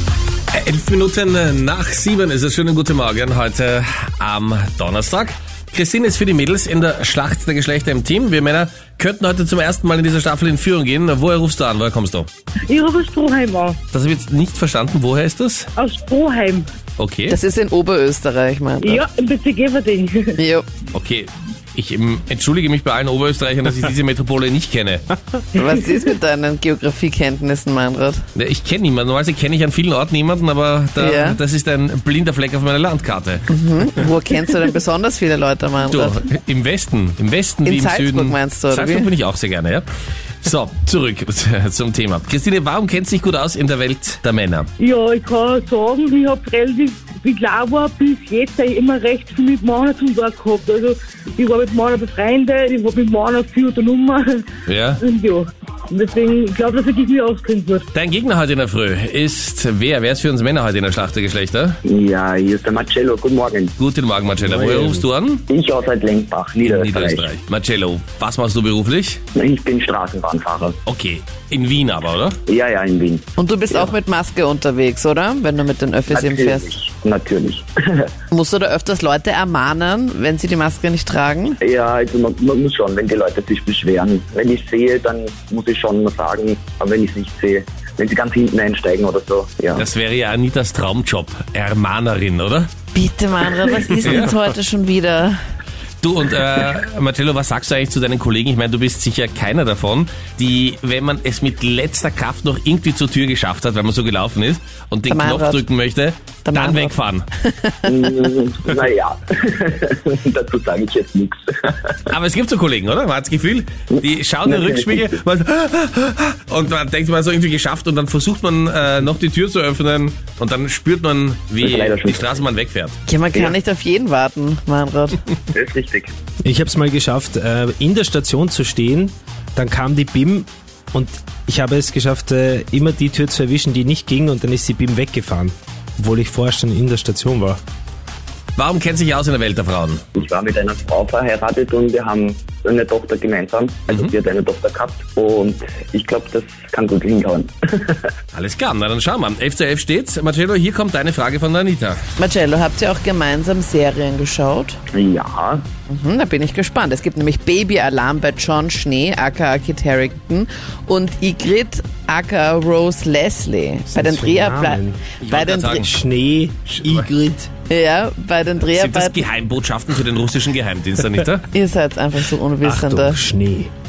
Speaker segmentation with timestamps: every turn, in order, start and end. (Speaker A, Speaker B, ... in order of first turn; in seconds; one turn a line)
Speaker A: 0.5-12.3
Speaker B: 12.7-13.8
Speaker A: 13.9-15.7
Speaker B: 15.8-16.7
Speaker A: 17.0-17.4
Speaker C: 17.3-19.0
Speaker B: 18.8-20.4
Speaker C: 20.4-20.7
Speaker A: 20.9-25.1
Speaker C: 25.5-28.2
Speaker A: 28.3-33.5
Speaker C: 31.0-31.4
Speaker C: 33.5-36.2
Speaker A: 35.9-39.9
Speaker C: 37.6-39.1
Speaker A: 40.4-44.7
Speaker B: 44.8-54.5
Speaker A: 54.7-55.0
Speaker B: 55.0-57.9
Speaker A: 57.9-61.8
Speaker D: 61.9-63.7
Speaker A: 63.8-65.4
Speaker E: 64.4-65.1
Speaker D: 65.5-67.3
Speaker A: 66.6-69.2
Speaker D: 69.3-70.8
Speaker A: 70.9-72.4
Speaker D: 72.5-74.0
Speaker C: 73.4-76.8
Speaker D: 76.1-78.1
Speaker C: 78.3-81.6
Speaker D: 81.6-89.9
Speaker A: 89.8-92.7
Speaker C: 92.9-95.4
Speaker A: 94.0-94.3
Speaker A: 96.0-107.3
Speaker C: 105.1-105.7
Speaker C: 106.5-108.0
Speaker D: 107.8-112.0
Speaker A: 112.1-123.0
Speaker D: 113.9-115.2
Speaker D: 121.6-122.4
Speaker C: 123.1-125.2
Speaker D: 125.5-126.1
Speaker E: 126.4-137.6
Speaker A: 138.6-140.1
Speaker D: 140.2-148.1
Speaker A: 143.9-144.1
Speaker A: 148.3-152.0
Speaker C: 152.2-154.8
Speaker D: 154.9-155.7
Speaker C: 155.9-165.8
Speaker E: 163.9-165.0
Speaker A: 165.2-165.9
Speaker E: 165.8-167.5
Speaker A: 166.7-167.1
Speaker C: 167.7-169.2
Speaker A: 168.6-171.5
Speaker C: 171.5-173.2
Speaker E: 172.6-173.7